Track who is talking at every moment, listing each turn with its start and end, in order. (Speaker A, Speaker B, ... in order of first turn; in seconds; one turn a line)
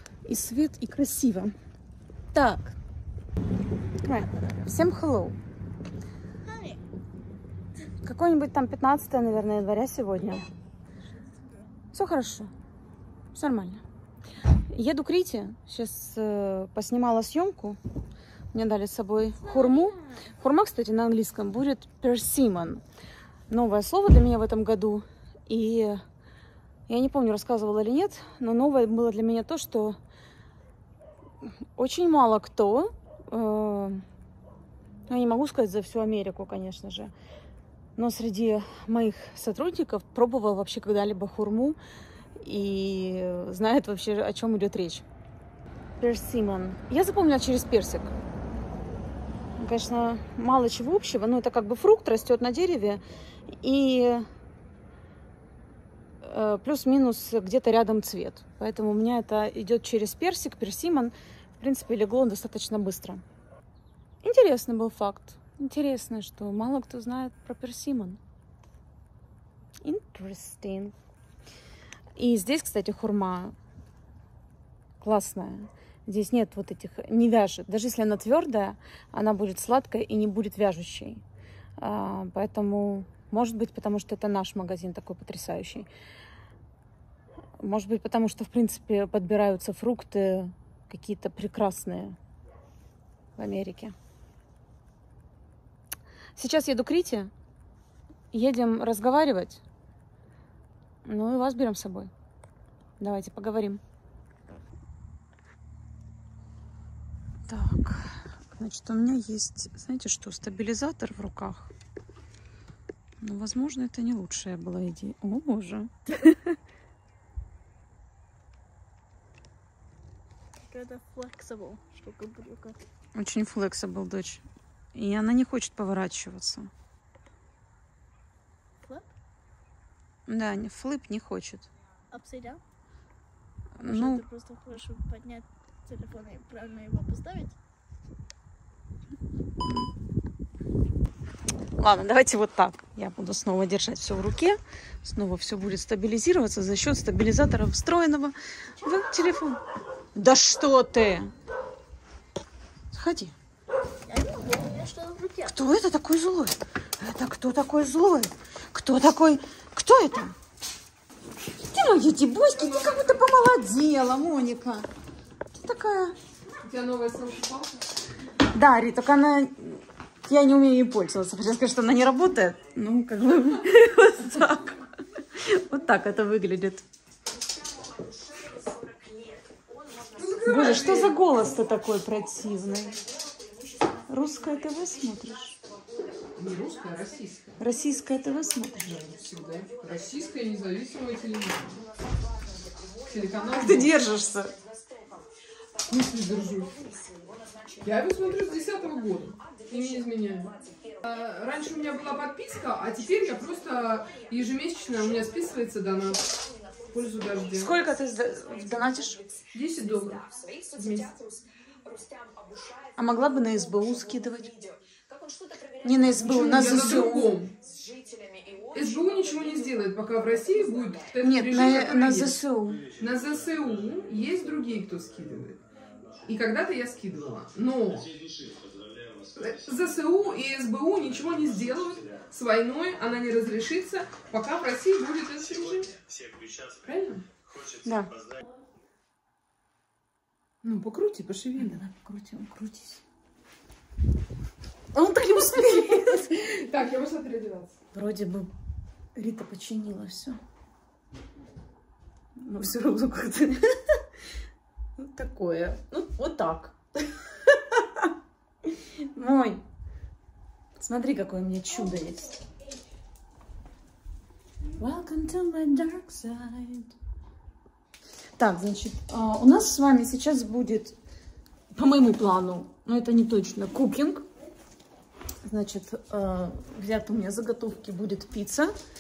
Speaker A: 0.2-1.5
Speaker A: 2.3-2.8
Speaker A: 4.0-5.4
Speaker B: 6.5-6.8
Speaker A: 8.0-10.4
Speaker A: 11.9-12.5
Speaker A: 13.3-13.8
Speaker A: 14.7-17.8
Speaker A: 18.5-22.8
Speaker A: 23.5-26.0
Speaker A: 26.9-30.0
Speaker A: 31.4-34.0
Speaker A: 35.1-37.1
Speaker A: 38.0-41.8
Speaker A: 42.4-45.0
Speaker A: 46.0-48.1
Speaker A: 49.6-54.3
Speaker A: 56.2-63.2
Speaker A: 64.2-68.2
Speaker A: 69.8-70.9
Speaker A: 72.2-73.5
Speaker A: 75.0-81.2
Speaker A: 81.8-85.9
Speaker A: 87.6-92.2
Speaker A: 93.4-93.9
Speaker A: 96.3-97.3
Speaker A: 98.3-99.6
Speaker A: 101.0-102.1
Speaker A: 103.0-103.8
Speaker A: 107.5-111.7
Speaker A: 113.2-116.5
Speaker B: 120.6-122.8
Speaker A: 123.2-124.4
Speaker A: 124.9-126.7
Speaker B: 128.8-129.1
Speaker A: 130.3-131.7
Speaker B: 132.1-132.6
Speaker A: 133.8-134.2
Speaker B: 133.8-137.5
Speaker A: 141.8-149.6
Speaker A: 150.2-151.3
Speaker A: 152.9-153.3
Speaker B: 154.1-155.5
Speaker A: 155.5-160.3
Speaker A: 161.6-164.8
Speaker A: 165.6-166.2
Speaker C: 166.6-167.8
Speaker A: 168.5-176.8
Speaker C: 180.2-181.2
Speaker A: 180.4-183.0
Speaker A: 184.1-185.6
Speaker C: 186.3-187.6
Speaker A: 187.6-188.9
Speaker C: 188.8-191.9
Speaker C: 193.1-194.0
Speaker A: 193.4-194.6
Speaker C: 195.9-196.8
Speaker C: 197.8-206.3
Speaker C: 206.9-207.8
Speaker A: 207.6-209.3
Speaker C: 209.5-211.2
Speaker A: 212.9-214.7
Speaker A: 215.8-217.4
Speaker C: 216.2-217.6
Speaker C: 218.7-222.4
Speaker A: 221.2-222.9
Speaker C: 222.9-225.6
Speaker C: 226.2-228.2
Speaker C: 229.2-237.3
Speaker A: 237.7-238.2
Speaker C: 240.6-241.8
Speaker A: 241.6-243.0
Speaker A: 244.9-246.5
Speaker C: 246.3-247.8
Speaker A: 247.9-248.5
Speaker A: 249.2-250.4
Speaker A: 252.4-254.0
Speaker A: 255.0-258.1
Speaker A: 258.7-259.6
Speaker A: 260.8-262.4
Speaker A: 264.8-266.9
Speaker A: 268.4-270.9
Speaker A: 271.8-274.2
Speaker A: 275.4-278.8